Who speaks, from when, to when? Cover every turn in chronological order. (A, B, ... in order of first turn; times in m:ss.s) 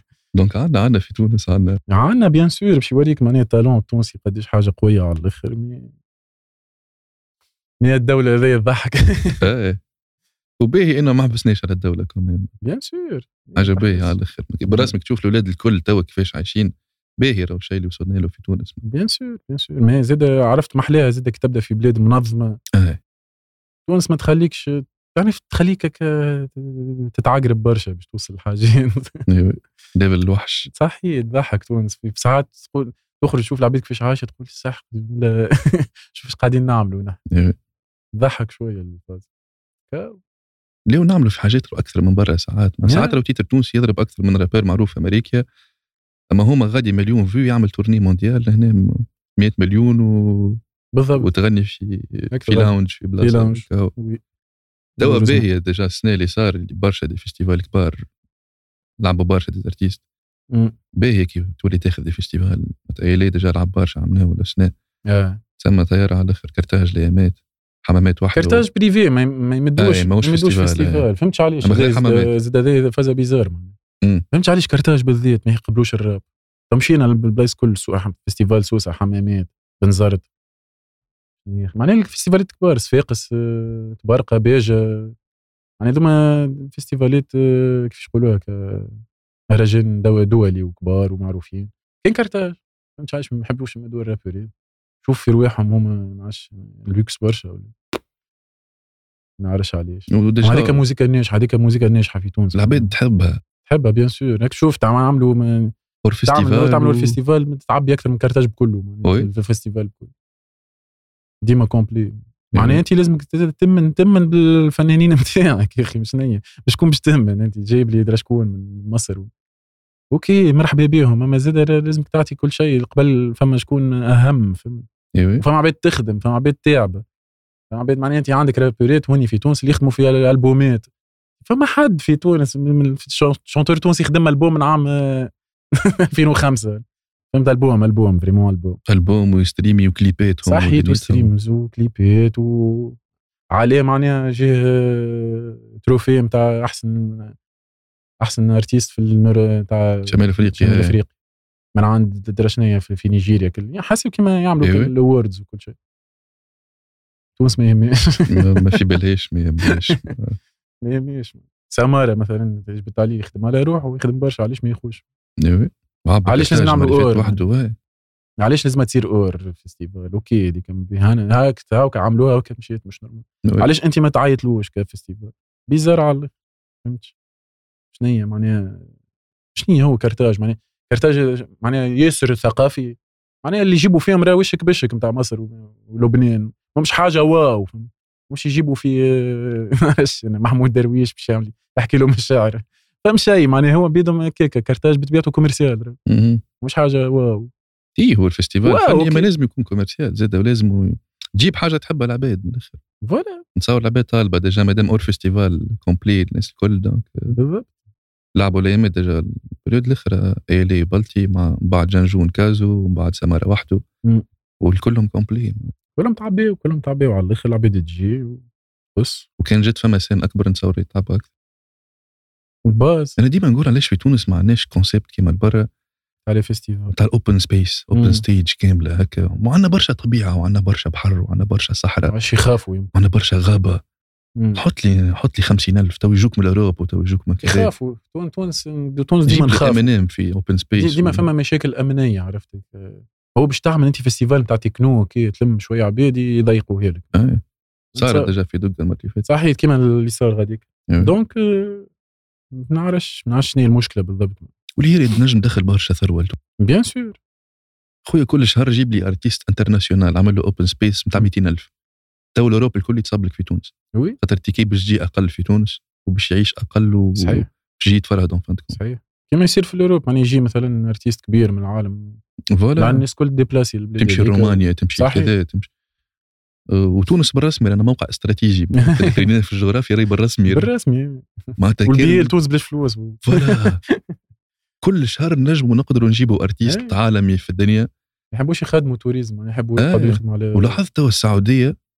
0:00.3-0:01.8 A
0:01.9-0:05.9 B
0:07.8-0:09.4 B
0:09.4-0:09.8 A
0:10.6-0:12.5 A
0:12.6-0:14.9 B
0:13.6-0:18.8 A
0:18.8-0:22.6 B
0:22.7-0:23.0 A
0:23.9-0:29.2 B
0:29.3-0:30.7 A
0:30.7-0:37.2 B
0:37.3-0:37.6 A
0:38.2-0:39.2 B
0:39.9-0:40.2 B
0:40.9-0:45.4 A
0:42.8-0:43.2 B
0:46.3-0:50.6 A
0:50.9-0:51.3 B
0:51.2-0:53.9 A
0:52.3-0:54.2 B
0:55.0-0:55.5 B
0:55.0-0:58.0 A
0:59.0-1:00.0 A
1:00.5-1:00.8 B
1:00.9-1:04.7 A
1:05.0-1:05.4 B
1:05.6-1:08.6 A
1:08.3-1:13.7 B
1:09.8-1:11.0 A
1:11.6-1:12.3 A
1:14.3-1:20.2 B
1:21.4-1:25.1 B
1:25.8-1:34.5 B
1:35.0-1:37.7 B
1:39.4-1:42.9 B
1:40.1-1:40.8 A
1:42.5-1:43.4 A
1:43.6-1:45.7 B
1:46.0-1:47.2 A
1:46.2-1:50.1 B
1:49.0-1:49.3 A
1:51.4-1:59.3 B
1:52.5-1:52.8 A
2:00.1-2:04.9 B
2:05.1-2:05.4 A
2:05.4-2:07.0 B
2:07.7-2:10.9 B
2:11.4-2:15.3 B
2:16.1-2:18.8 B
2:18.9-2:21.3 A
2:20.4-2:23.0 B
2:23.5-2:27.4 B
2:28.2-2:31.1 B
2:30.0-2:31.0 A
2:31.7-2:35.8 B
2:34.6-2:34.9 A
2:37.4-2:38.8 B
2:38.3-2:40.4 A
2:39.6-2:40.1 B
2:40.8-2:45.0 B
2:45.4-2:47.7 A
2:46.2-2:47.4 B
2:48.4-2:57.1 B
2:57.9-2:58.9 B
2:59.5-3:16.0 B
3:16.1-3:16.4 A
3:16.6-3:17.5 B
3:18.0-3:22.8 A
3:18.6-3:19.3 B
3:23.0-3:23.4 B
3:23.6-3:27.4 A
3:27.3-3:27.7 B
3:28.3-3:33.8 A
3:34.6-3:35.7 A
3:36.0-3:38.4 B
3:38.9-3:39.3 B
3:39.4-3:41.3 A
3:42.6-3:43.2 B
3:43.2-3:45.7 A
3:46.2-3:46.9 B
3:46.9-3:52.2 A
3:47.9-3:48.2 B
3:52.1-3:52.9 B
3:52.9-3:53.8 A
3:54.4-3:54.6 B
3:54.5-3:57.7 A
3:57.4-3:59.9 B
3:59.3-4:01.2 A
4:00.8-4:07.1 B
4:07.1-4:07.4 A
4:07.9-4:08.3 B
4:07.9-4:09.2 A
4:09.2-4:11.9 B
4:10.9-4:11.1 A
4:12.5-4:14.5 B
4:14.8-4:16.4 A
4:16.6-4:17.2 B
4:18.0-4:21.7 A
4:22.3-4:28.8 A
4:27.2-4:27.5 B
4:28.7-4:32.2 B
4:32.5-4:33.0 A
4:32.8-4:35.3 B
4:34.0-4:35.7 A
4:36.7-4:40.7 A
4:38.8-4:39.2 B
4:40.5-4:44.0 B
4:41.6-4:42.3 A
4:43.2-4:43.8 A
4:44.8-4:47.9 A
4:46.6-4:46.9 B
4:48.3-4:50.8 B
4:49.8-4:51.7 A